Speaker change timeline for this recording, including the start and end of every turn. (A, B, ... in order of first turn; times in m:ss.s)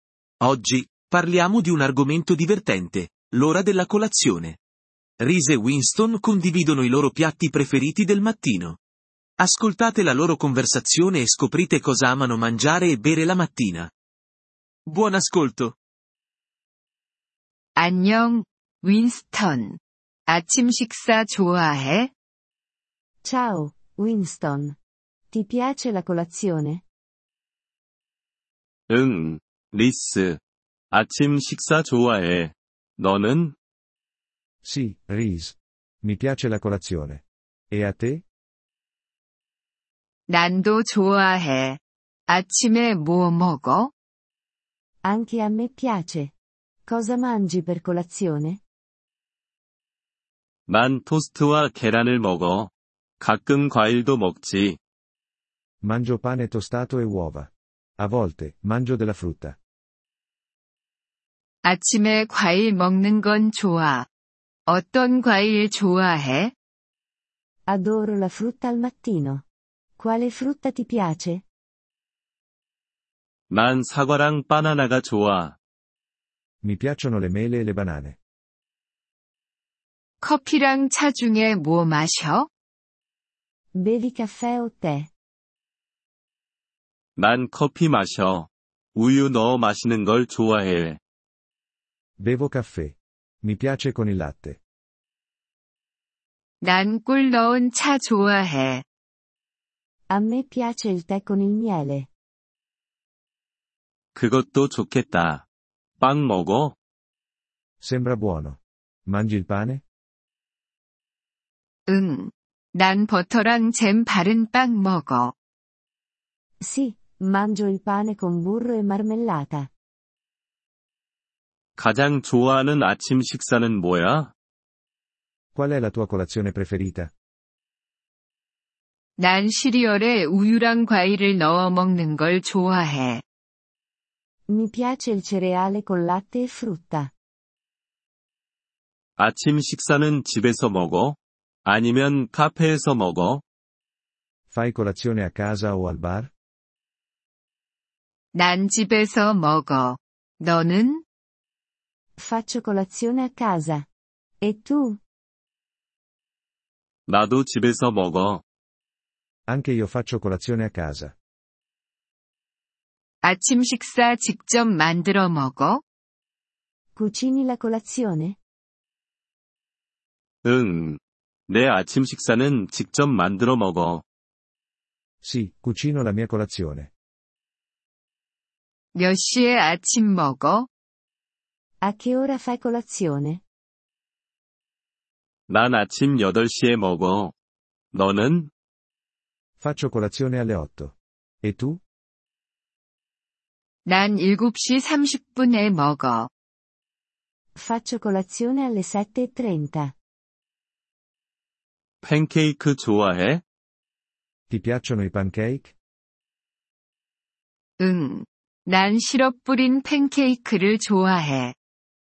0:00.4-0:04.6 A
0:05.2-0:08.8 A
0:09.4-0:13.9 A
0:14.8-0:15.8 A
0:17.8-0:22.1 B
0:23.2-0:24.8 C
0:25.3-0:26.8 C
0:28.9-0:30.4 D
0:30.9-0:33.6 D
0:34.6-0:38.2 E
0:40.3-0:43.9 B
0:45.0-0:46.3 C
0:46.9-0:48.6 C
0:50.7-0:54.8 D
0:55.8-0:59.6 E
1:01.6-1:04.1 B
1:04.7-1:06.5 B
1:07.7-1:09.4 C
1:10.0-1:11.4 C
1:13.5-1:15.6 D
1:16.6-1:18.2 E
1:20.2-1:22.5 B
1:23.7-1:25.1 C
1:27.2-1:31.0 D
1:32.2-1:34.6 E
1:36.6-1:38.8 B
1:40.1-1:42.1 C
1:44.1-1:45.4 D
1:46.0-1:46.8 D
1:47.8-1:49.8 E
1:51.9-1:55.3 B
1:56.6-1:59.7 C
2:01.8-2:04.3 D
2:05.5-2:07.1 E
2:09.2-2:13.2 B
2:14.5-2:17.1 C
2:19.2-2:23.4 D
2:24.5-2:26.3 E
2:28.3-2:31.0 B
2:32.2-2:33.9 C
2:34.4-2:35.0 C
2:37.1-2:38.4 D
2:39.5-2:41.1 E
2:43.2-2:45.8 B
2:47.0-2:48.4 C
2:50.4-2:54.0 D
2:55.2-2:56.9 E
2:58.9-3:00.7 B
3:01.8-3:03.4 C
3:05.5-3:07.3 D
3:07.9-3:08.5 D
3:09.6-3:11.8 E
3:13.8-3:16.3 B
3:17.6-3:19.9 C
3:22.0-3:23.4 D
3:24.5-3:25.7 E
3:27.8-3:31.5 B